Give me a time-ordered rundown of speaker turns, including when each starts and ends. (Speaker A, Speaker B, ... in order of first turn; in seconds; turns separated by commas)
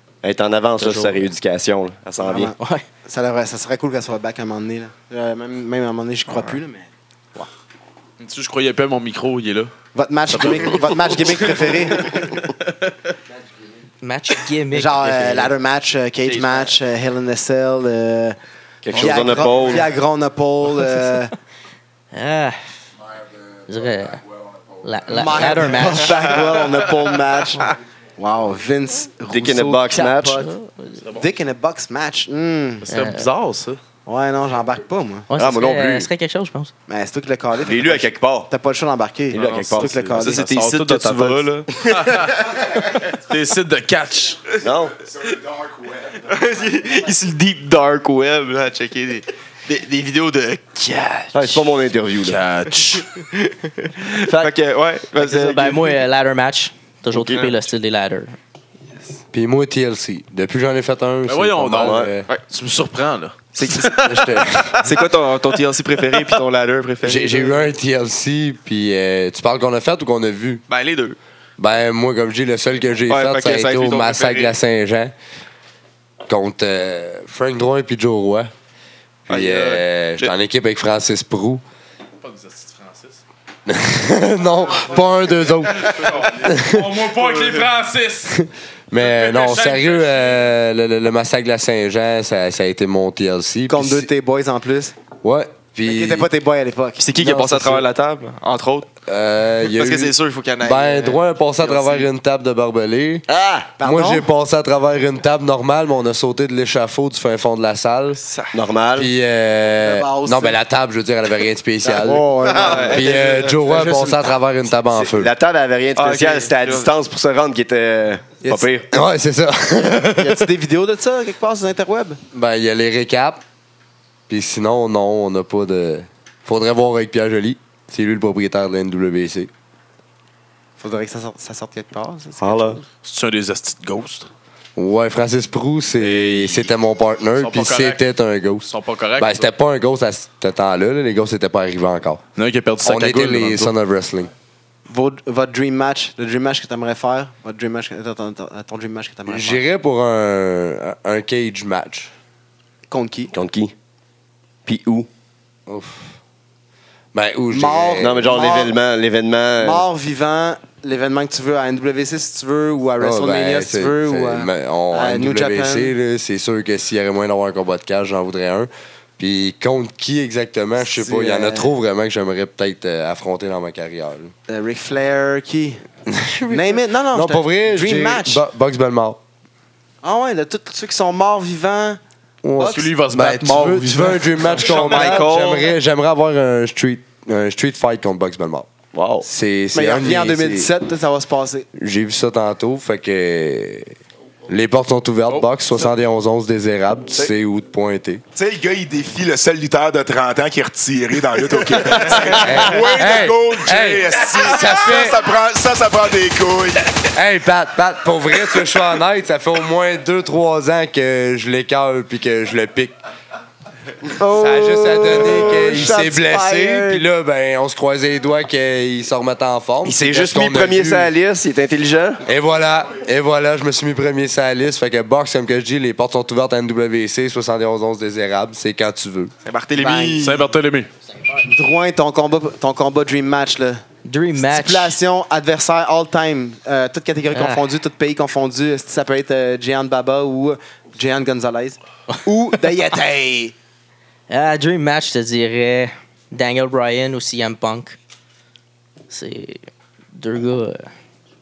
Speaker A: 0.2-2.5, Speaker B: 0.8-1.2, Speaker C: 2.2-2.5, Speaker B: 2.5-2.8, Speaker C: 3.0-6.9, Speaker D: 6.3-6.5, Speaker E: 8.2-9.7, Speaker C: 9.9-12.2, Speaker E: 10.3-12.7, Speaker B: 14.0-15.5, Speaker C: 14.7-18.4, Speaker D: 16.2-16.7, Speaker A: 18.8-19.9, Speaker C: 18.9-21.3, Speaker B: 22.1-22.6, Speaker F: 23.0-25.4, Speaker B: 23.7-24.2, Speaker B: 24.8-26.2, Speaker C: 25.1-30.4, Speaker A: 29.3-30.4, Speaker B: 29.9-31.0, Speaker C: 31.1-32.9, Speaker E: 32.8-33.8, Speaker B: 32.9-33.3, Speaker C: 34.0-35.3, Speaker B: 35.3-36.7, Speaker A: 35.4-36.1, Speaker C: 36.9-40.5, Speaker A: 37.6-38.5, Speaker A: 39.3-40.1, Speaker E: 39.3-44.5, Speaker D: 40.1-41.7, Speaker A: 44.6-45.0, Speaker F: 45.0-46.3, Speaker D: 46.2-51.6, Speaker A: 51.3-52.4, Speaker E: 52.2-53.1, Speaker D: 53.2-56.0, Speaker B: 55.2-58.4, Speaker A: 57.1-57.4, Speaker G: 59.3-62.2, Speaker E: 61.3-64.2, Speaker A: 61.8-62.1, Speaker D: 63.5-64.2, Speaker G: 64.0-64.8, Speaker D: 64.7-67.6, Speaker G: 67.0-70.6, Speaker D: 70.7-71.2, Speaker G: 71.6-75.1, Speaker D: 73.1-74.5, Speaker G: 76.3-78.5, Speaker G: 79.3-81.6, Speaker D: 79.3-80.3, Speaker E: 82.2-83.2, Speaker G: 83.7-87.0, Speaker E: 85.9-88.4, Speaker G: 88.3-94.1, Speaker E: 89.0-90.4, Speaker C: 93.7-94.9, Speaker G: 95.2-96.3, Speaker C: 95.8-97.1, Speaker D: 97.0-98.9, Speaker G: 97.2-97.8, Speaker G: 99.1-103.2, Speaker D: 99.6-102.1, Speaker A: 103.3-103.7, Speaker C: 103.8-104.3, Speaker G: 103.8-108.2, Speaker D: 108.2-108.6, Speaker A: 108.5-109.1, Speaker G: 109.0-115.3, Speaker C: 109.8-110.6, Speaker C: 111.8-114.3, Speaker D: 112.4-113.6, Speaker A: 114.9-118.9, Speaker D: 116.0-116.9, Speaker G: 118.9-120.5, Speaker C: 120.1-122.2, Speaker G: 122.3-123.4, Speaker G: 124.3-129.5, Speaker C: 130.8-132.8, Speaker A: 132.4-132.8, Speaker E: 133.0-134.3, Speaker G: 134.8-142.2, Speaker E: 136.0-136.7, Speaker E: 137.4-138.0, Speaker E: 138.7-139.5, Speaker E: 142.4-143.7, Speaker G: 142.8-144.3, Speaker C: 144.9-149.6, Speaker G: 149.3-152.1, Speaker C: 152.9-153.3, Speaker A: 153.3-153.7, Speaker A: 154.7-155.1, Speaker G: 155.7-156.1, Speaker G: 157.1-158.4, Speaker C: 157.5-158.8, Speaker A: 158.0-159.8, Speaker C: 159.6-165.9, Speaker G: 163.0-174.3, Speaker C: 170.8-171.7, Speaker C: 174.5-175.8, Speaker G: 176.1-179.2, Speaker C: 176.5-178.4, Speaker C: 180.0-182.0, Speaker G: 182.4-188.7, Speaker C: 182.6-182.9, Speaker E: 182.6-185.2, Speaker D: 184.6-185.7, Speaker A: 188.9-189.3, Speaker G: 189.2-190.7, Speaker C: 189.7-191.7, Speaker G: 191.7-193.9, Speaker G: 194.5-198.2, Speaker F: 198.3-207.0, Speaker G: 202.3-205.3, Speaker G: 207.1-212.9, Speaker C: 214.1-217.0, Speaker G: 214.2-221.1, Speaker A: 219.8-222.2, Speaker G: 222.2-229.3, Speaker D: 229.4-230.3, Speaker C: 229.8-230.5, Speaker E: 230.2-230.9, Speaker C: 231.4-233.8, Speaker B: 234.0-234.9, Speaker C: 234.4-243.5, Speaker B: 237.3-237.6, Speaker B: 244.3-248.0, Speaker B: 249.1-249.6, Speaker B: 250.1-250.9